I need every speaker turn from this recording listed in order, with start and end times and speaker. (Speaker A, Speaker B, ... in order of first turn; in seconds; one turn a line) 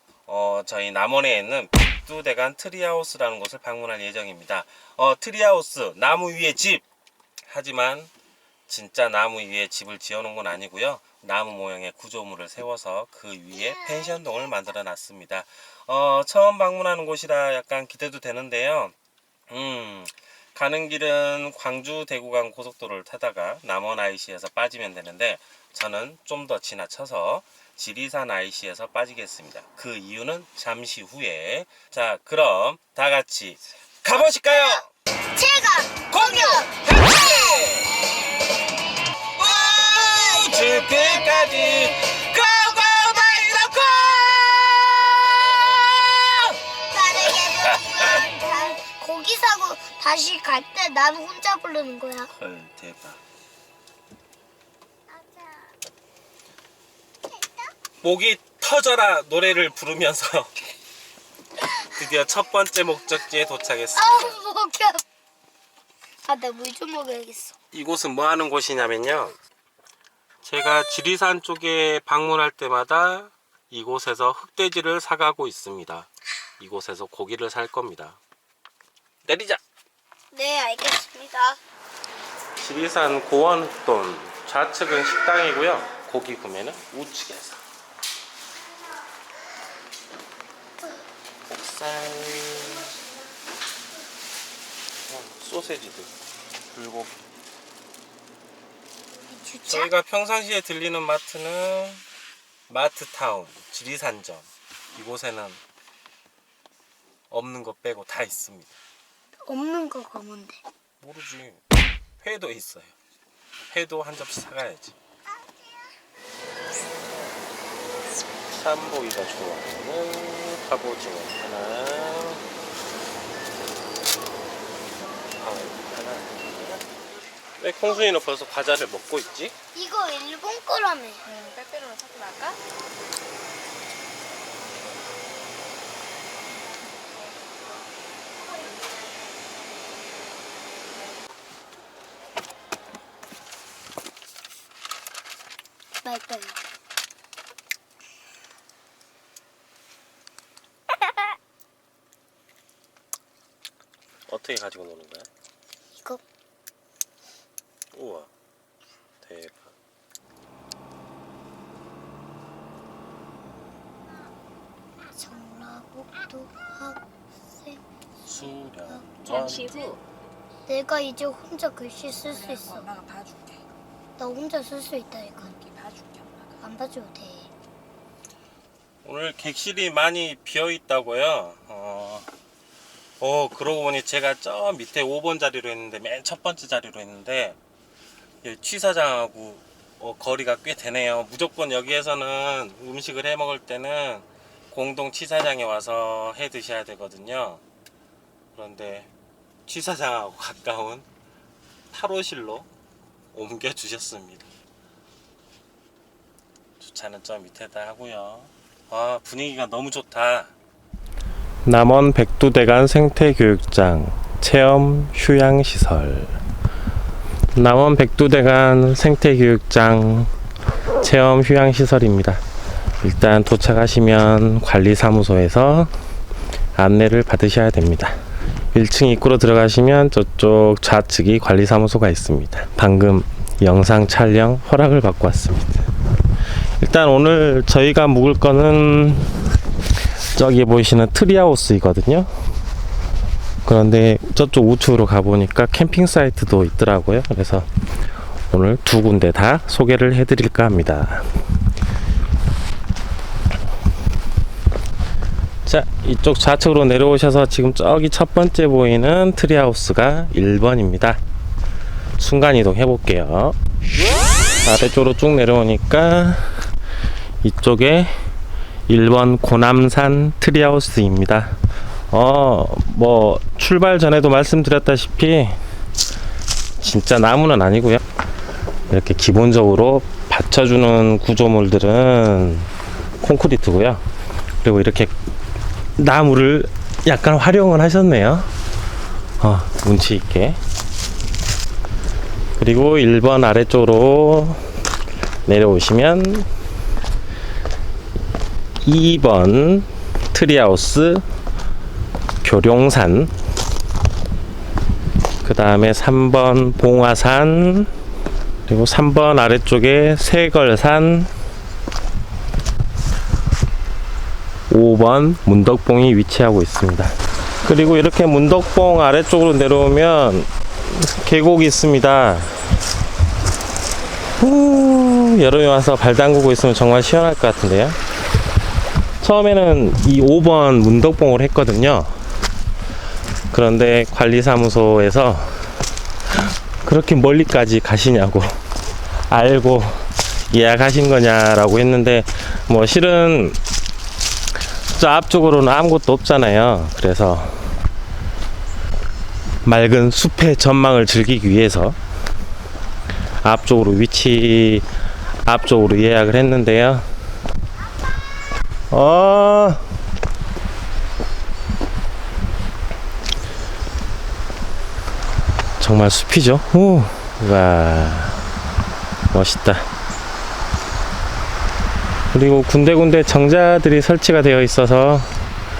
Speaker A: 0.3-6.8
Speaker A: 7.4-8.1
Speaker A: 8.7-18.9
Speaker A: 19.5-34.9
Speaker B: 35.3-37.8
Speaker A: 36.1-37.9
Speaker A: 39.4-45.1
Speaker B: 39.6-41.7
Speaker A: 46.1-46.4
Speaker B: 46.8-52.3
Speaker A: 52.3-53.2
Speaker B: 55.3-55.6
Speaker A: 58.0-60.5
Speaker A: 61.8-64.4
Speaker B: 63.9-65.0
Speaker B: 66.2-67.5
Speaker A: 67.7-69.4
Speaker A: 70.4-78.2
Speaker A: 79.2-79.6
Speaker B: 80.3-81.6
Speaker A: 82.6-87.6
Speaker A: 91.5-93.0
Speaker A: 95.1-96.1
Speaker A: 96.7-97.1
Speaker B: 99.3-99.9
Speaker A: 99.7-102.0
Speaker A: 102.7-105.6
Speaker A: 107.3-108.7
Speaker B: 109.4-110.6
Speaker A: 111.0-111.6
Speaker A: 112.2-112.9
Speaker A: 113.7-114.9
Speaker A: 118.5-122.4
Speaker A: 125.4-126.8
Speaker A: 127.6-129.5
Speaker B: 129.7-131.3
Speaker C: 131.3-132.6
Speaker B: 146.0-146.6
Speaker A: 154.3-155.3
Speaker A: 157.9-158.3
Speaker A: 159.2-159.7
Speaker B: 165.1-167.8
Speaker A: 168.2-169.8
Speaker C: 169.3-170.0
Speaker B: 170.7-172.9
Speaker C: 172.2-173.6
Speaker B: 174.2-175.6
Speaker C: 175.5-176.6
Speaker B: 176.6-177.5
Speaker A: 179.0-182.3
Speaker A: 183.2-187.6
Speaker A: 188.4-197.6
Speaker A: 198.5-199.1
Speaker A: 199.7-201.1
Speaker A: 201.9-202.7
Speaker A: 203.3-204.5
Speaker A: 206.8-210.5
Speaker A: 211.6-216.4
Speaker A: 217.5-220.3
Speaker A: 221.0-222.4
Speaker A: 223.0-225.9
Speaker A: 226.8-228.2
Speaker A: 228.7-235.9
Speaker A: 236.8-239.3
Speaker A: 240.3-242.3
Speaker A: 243.6-247.7
Speaker A: 248.5-251.3
Speaker A: 255.7-261.2
Speaker A: 262.2-263.6
Speaker A: 264.6-266.6
Speaker A: 267.4-268.1
Speaker A: 268.9-271.6
Speaker A: 272.1-275.6
Speaker A: 276.8-278.0
Speaker A: 278.9-284.0
Speaker A: 284.6-285.1
Speaker A: 286.0-288.5
Speaker A: 289.4-290.6
Speaker A: 292.6-294.6
Speaker A: 295.4-296.5
Speaker A: 298.8-301.2
Speaker A: 302.4-303.3
Speaker A: 305.4-307.9
Speaker A: 308.7-311.3
Speaker A: 314.7-322.6
Speaker A: 324.4-328.0
Speaker A: 329.2-332.1
Speaker A: 333.5-335.7
Speaker A: 336.8-338.6
Speaker A: 339.3-343.6
Speaker A: 344.9-347.7
Speaker A: 349.6-352.0
Speaker A: 353.4-354.9
Speaker A: 355.4-357.1
Speaker A: 358.9-359.8
Speaker A: 365.8-368.4
Speaker A: 369.3-369.9
Speaker A: 372.3-375.3